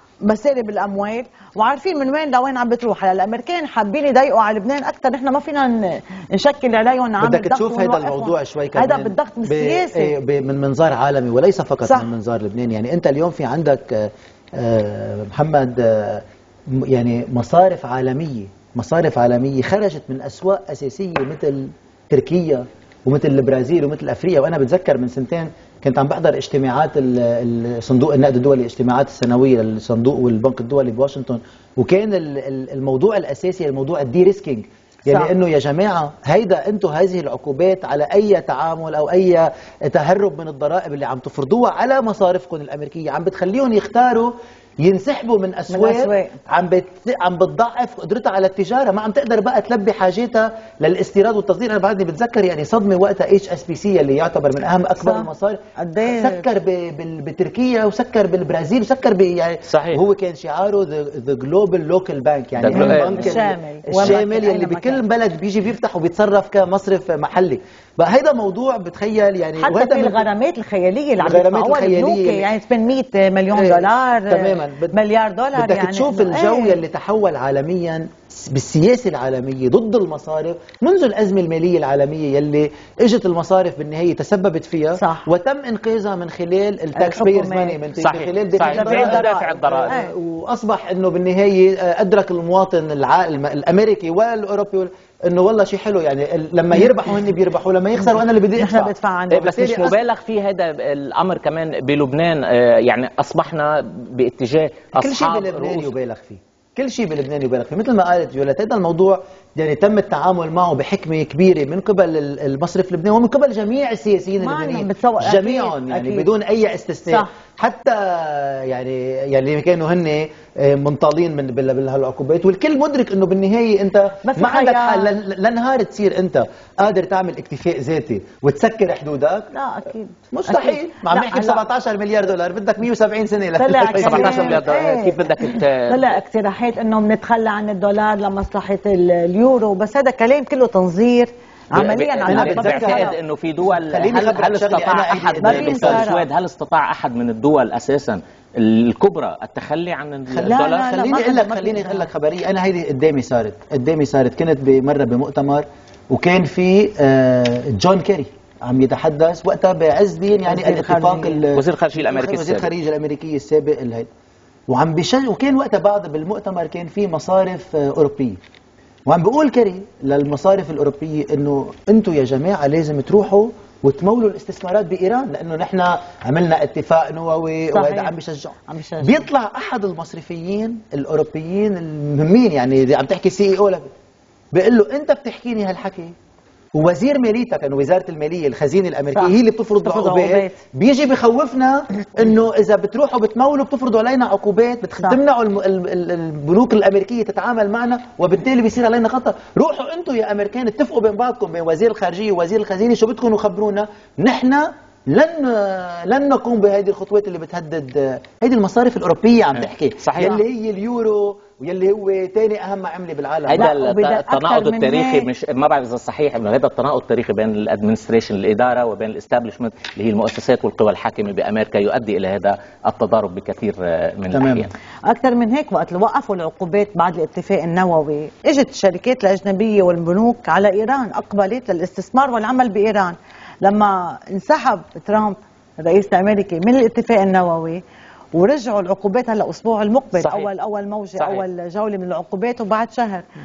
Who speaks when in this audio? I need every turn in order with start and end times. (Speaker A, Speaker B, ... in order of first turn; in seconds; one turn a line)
Speaker A: 0.2-10.1
Speaker B: 7.2-70.3
Speaker A: 11.8-12.1
Speaker A: 35.1-35.3
Speaker A: 45.7-46.4
Speaker A: 55.0-55.3
Speaker A: 55.8-56.5
Speaker C: 59.7-60.0
Speaker C: 62.6-63.4
Speaker A: 62.7-65.0
Speaker A: 69.6-76.8
Speaker B: 71.2-72.5
Speaker B: 73.5-75.0
Speaker B: 75.5-100.0
Speaker A: 85.0-85.3
Speaker A: 87.0-87.8
Speaker C: 88.0-90.0
Speaker A: 88.5-90.1
Speaker A: 98.6-99.6
Speaker C: 99.3-105.9
Speaker B: 105.0-129.5
Speaker A: 114.4-116.3
Speaker A: 124.2-125.1
Speaker A: 129.5-131.6
Speaker B: 130.3-134.8
Speaker A: 133.6-143.1
Speaker C: 133.9-136.2
Speaker C: 141.7-151.0
Speaker B: 142.3-143.2
Speaker B: 143.9-146.1
Speaker A: 145.4-146.3
Speaker B: 150.3-164.1
Speaker A: 150.4-152.1
Speaker A: 160.4-161.4
Speaker C: 161.5-162.7
Speaker B: 164.7-168.4
Speaker B: 169.1-183.9
Speaker A: 177.7-178.1
Speaker A: 178.7-179.3
Speaker B: 184.5-186.1
Speaker B: 186.8-213.7
Speaker A: 189.1-190.6
Speaker C: 209.6-210.4
Speaker C: 213.5-224.7
Speaker A: 213.6-215.3
Speaker B: 224.3-224.7
Speaker A: 225.1-237.8
Speaker A: 238.3-243.3
Speaker C: 240.2-240.5
Speaker C: 241.2-241.4